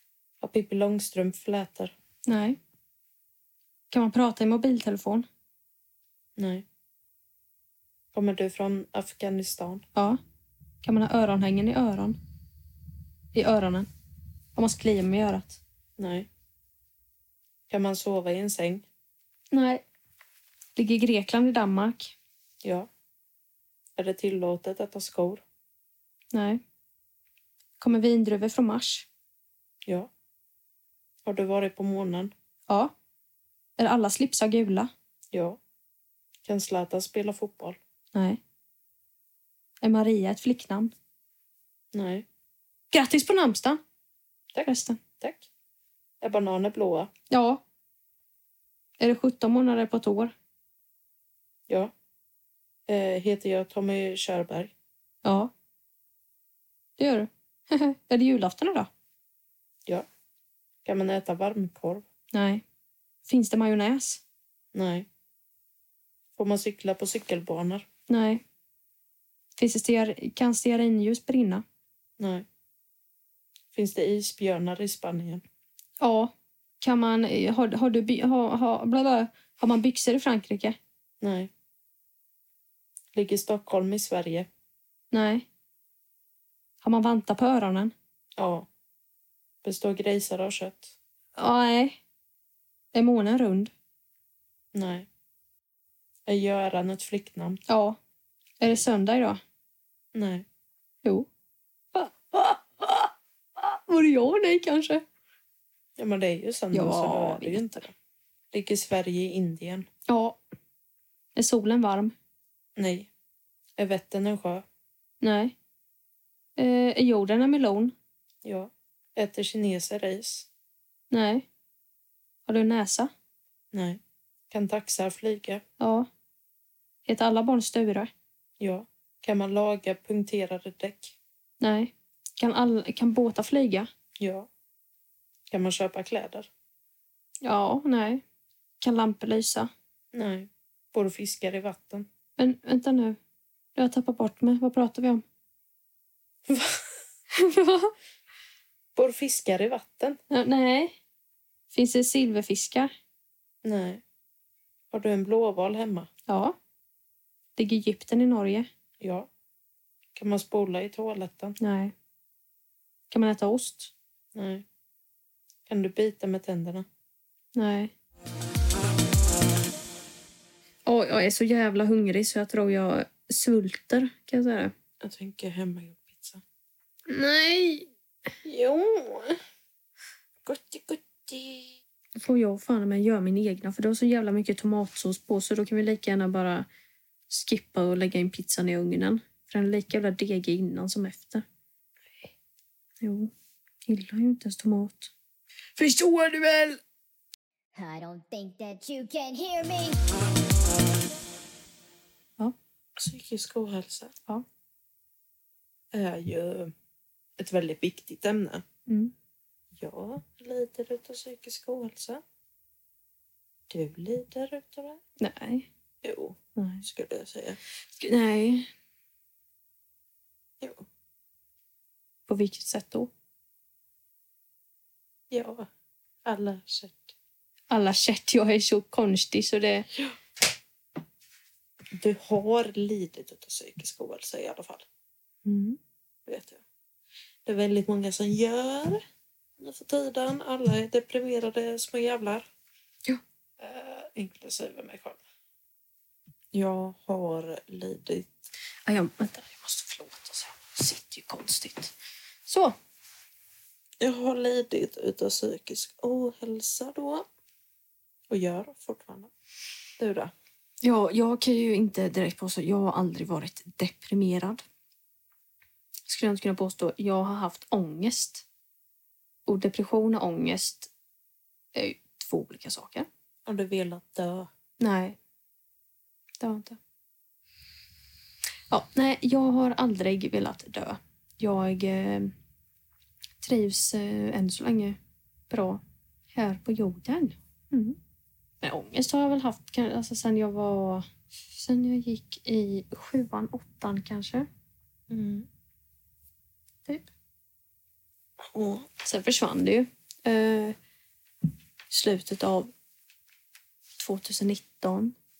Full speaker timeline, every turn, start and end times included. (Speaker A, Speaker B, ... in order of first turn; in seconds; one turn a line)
Speaker A: 0.4-1.9
Speaker B: 2.3-2.6
Speaker B: 3.9-5.3
Speaker A: 6.4-6.7
Speaker A: 8.1-9.8
Speaker B: 10.8-12.2
Speaker B: 13.3-13.9
Speaker B: 14.6-15.6
Speaker A: 16.0-16.3
Speaker A: 17.7-18.9
Speaker B: 19.5-19.8
Speaker B: 20.8-22.1
Speaker A: 22.6-22.9
Speaker A: 24.0-25.4
Speaker B: 26.3-26.6
Speaker B: 27.8-29.1
Speaker A: 29.9-30.1
Speaker A: 31.2-32.3
Speaker B: 32.7-32.9
Speaker B: 33.8-34.9
Speaker A: 35.3-35.6
Speaker A: 36.5-37.8
Speaker B: 38.1-38.4
Speaker B: 39.8-40.9
Speaker A: 41.9-42.3
Speaker B: 42.9-43.8
Speaker B: 44.6-45.0
Speaker A: 45.2-45.5
Speaker A: 46.2-47.1
Speaker B: 47.3-47.6
Speaker B: 49.0-50.3
Speaker A: 51.7-51.9
Speaker A: 52.9-54.7
Speaker B: 55.2-55.5
Speaker B: 57.0-58.9
Speaker A: 60.9-62.0
Speaker B: 62.3-62.6
Speaker B: 63.3-64.2
Speaker A: 64.7-65.1
Speaker A: 66.4-67.9
Speaker B: 68.1-68.4
Speaker B: 69.6-71.6
Speaker A: 72.2-72.5
Speaker A: 73.7-75.4
Speaker B: 76.0-80.8
Speaker A: 81.2-81.5
Speaker A: 83.1-84.5
Speaker B: 85.1-85.5
Speaker B: 86.8-87.9
Speaker A: 88.4-88.7
Speaker A: 89.6-91.0
Speaker B: 91.4-92.0
Speaker B: 92.9-93.7
Speaker A: 94.7-95.1
Speaker A: 96.3-97.6
Speaker B: 97.7-98.0
Speaker B: 98.6-99.4
Speaker A: 100.1-100.5
Speaker B: 102.0-105.0
Speaker A: 106.0-107.9
Speaker B: 106.7-107.8
Speaker A: 108.5-109.9
Speaker B: 110.1-110.4
Speaker B: 111.4-112.2
Speaker A: 112.8-113.1
Speaker A: 113.8-114.7
Speaker B: 115.2-115.5
Speaker B: 116.6-117.9
Speaker A: 118.4-120.5
Speaker B: 121.1-121.5
Speaker B: 122.5-123.1
Speaker A: 123.7-125.6
Speaker B: 125.8-126.1
Speaker B: 127.1-128.1
Speaker A: 128.6-131.2
Speaker B: 131.6-133.9
Speaker A: 134.2-134.5
Speaker A: 135.5-136.5
Speaker B: 137.4-138.2
Speaker B: 138.8-139.7
Speaker A: 140.1-142.1
Speaker B: 142.4-143.2
Speaker B: 143.8-145.2
Speaker A: 146.5-146.9
Speaker B: 147.3-147.9
Speaker A: 148.9-150.2
Speaker B: 150.3-151.0
Speaker B: 151.7-152.9
Speaker A: 153.6-154.0
Speaker A: 154.9-156.1
Speaker B: 156.3-156.6
Speaker B: 157.6-158.7
Speaker A: 159.0-159.3
Speaker A: 160.2-161.6
Speaker B: 161.6-161.9
Speaker B: 163.1-163.9
Speaker A: 164.3-164.7
Speaker A: 165.7-166.9
Speaker B: 167.6-167.9
Speaker B: 170.9-174.7
Speaker A: 175.0-176.4
Speaker B: 177.1-177.9
Speaker A: 178.4-179.4
Speaker A: 180.4-181.8
Speaker B: 182.2-186.7
Speaker B: 187.3-191.4
Speaker B: 193.0-193.3
Speaker B: 193.9-195.1
Speaker B: 195.8-196.8
Speaker C: 197.8-200.0
Speaker A: 203.0-204.1
Speaker A: 205.9-206.7
Speaker A: 207.4-208.6
Speaker B: 208.9-209.1
Speaker A: 209.8-212.2
Speaker A: 213.7-215.0
Speaker B: 215.2-215.7
Speaker A: 216.0-217.6
Speaker B: 216.6-216.9
Speaker B: 218.0-218.7
Speaker A: 220.6-220.9
Speaker B: 222.3-223.1
Speaker A: 225.3-225.7
Speaker A: 226.2-227.2
Speaker B: 227.7-229.9
Speaker A: 232.0-234.9
Speaker B: 235.4-235.8
Speaker A: 236.3-236.6
Speaker A: 237.5-239.0
Speaker A: 239.6-242.5
Speaker A: 243.6-245.2
Speaker A: 246.5-248.4
Speaker B: 248.9-251.9
Speaker B: 252.5-252.8
Speaker A: 254.0-257.3
Speaker A: 258.3-259.3
Speaker A: 260.0-260.3
Speaker B: 260.8-264.6
Speaker B: 266.1-268.4
Speaker B: 269.5-270.9
Speaker B: 271.7-273.1
Speaker A: 273.5-274.5
Speaker B: 274.8-275.2
Speaker B: 276.4-276.8
Speaker B: 278.7-282.3
Speaker B: 283.4-285.0
Speaker B: 285.5-285.8
Speaker B: 286.3-288.0
Speaker B: 288.6-294.5
Speaker A: 295.1-295.5
Speaker A: 298.5-298.9
Speaker B: 299.0-300.8
Speaker B: 301.9-302.7
Speaker B: 304.0-305.2